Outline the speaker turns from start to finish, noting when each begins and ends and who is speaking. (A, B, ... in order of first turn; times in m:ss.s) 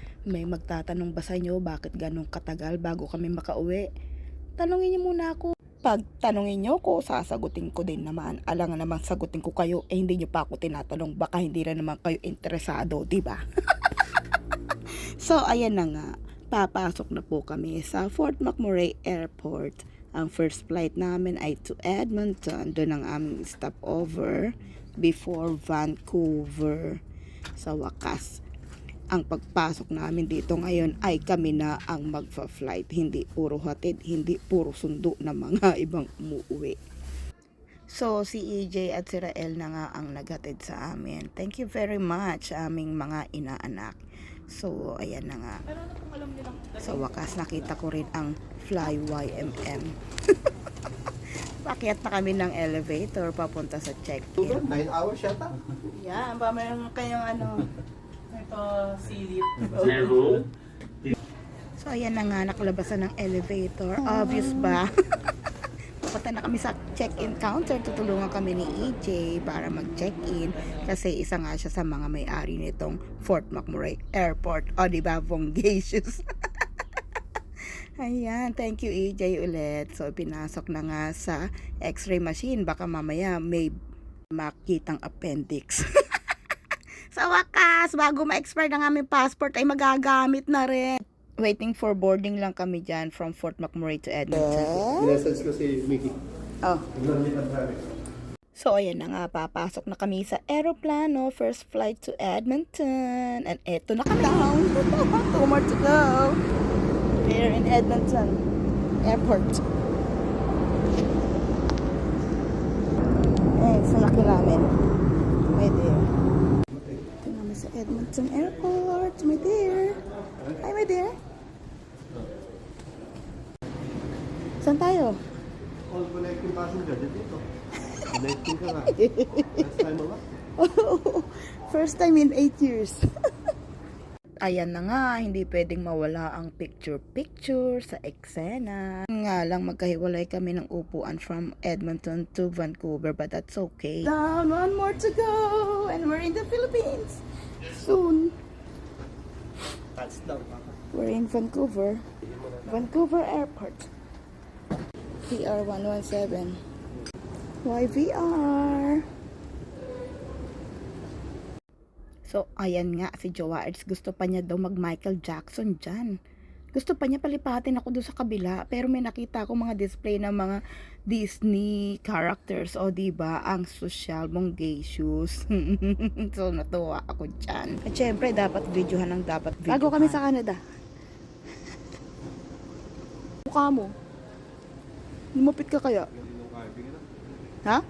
0:00.3-0:03.9 A
0:04.6-0:13.4 A
0:15.1-0:27.0 A
0:27.6-0:28.4 A
0:29.1-0:36.8 A
0:37.9-0:46.0 A
0:45.9-0:46.6 B
0:46.6-0:50.5 A
0:51.6-0:54.7 A
0:54.4-0:55.5 C
0:55.9-0:57.7 A
0:58.3-1:00.3 B
0:59.6-1:00.4 A
1:01.8-1:04.9 A
1:06.1-1:16.2 A
1:18.0-1:23.7 A
1:24.3-1:25.8 A
1:27.1-1:35.1 A
1:34.5-1:36.2 C
1:36.9-1:37.8 C
1:38.6-1:46.4 A
1:47.2-1:48.4 A
1:49.0-1:49.6 A
1:53.3-1:54.8 A
1:55.5-1:56.1 A
1:57.2-2:00.0 A
2:00.6-2:01.1 A
2:04.6-2:05.2 A
2:05.9-2:07.4 C
2:08.1-2:09.0 C
2:08.8-2:09.7 A
2:09.5-2:10.2 C
2:10.6-2:13.0 A
2:14.4-2:28.3 A
2:29.9-2:30.6 C
2:30.9-2:32.0 A
2:32.6-2:33.9 A
2:35.3-2:36.6 A
2:37.6-2:39.0 A
2:42.3-2:46.1 A
2:46.7-2:50.6 A
2:51.1-3:00.6 A
2:59.7-3:00.4 B
3:03.5-3:03.9 A
3:05.4-3:06.1 A
3:06.1-3:07.1 C